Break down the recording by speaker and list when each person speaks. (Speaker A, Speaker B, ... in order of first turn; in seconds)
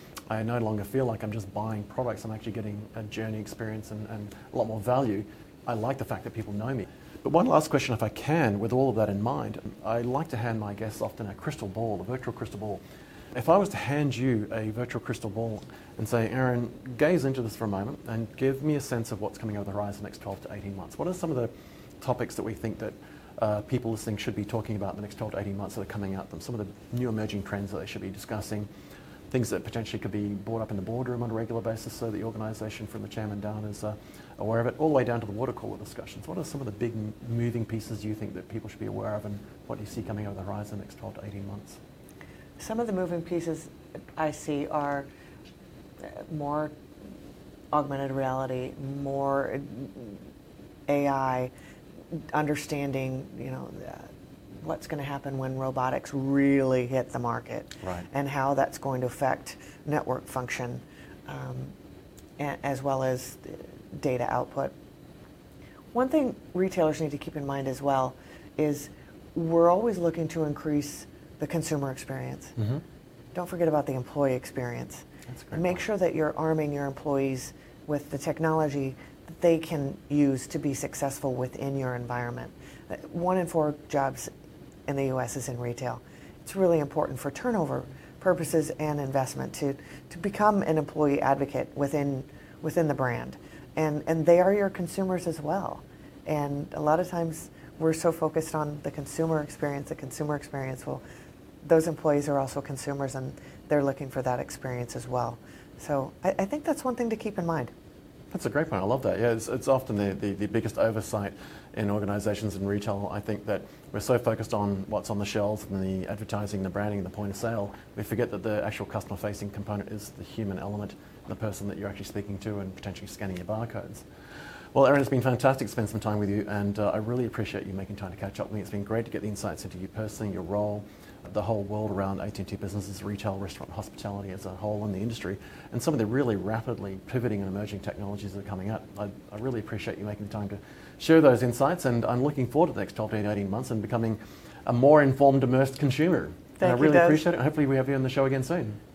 Speaker A: 0.3-12.8, 13.3-28.7, 29.3-41.8, 57.8-58.1, 75.3-75.8, 108.3-124.1, 124.7-148.8
Speaker B: 42.6-45.1, 46.0-46.7, 47.7-50.2, 50.9-51.5, 52.1-61.8, 62.4-64.7, 65.9-72.6, 73.3-84.3, 84.9-101.0, 101.6-107.7, 146.6-147.2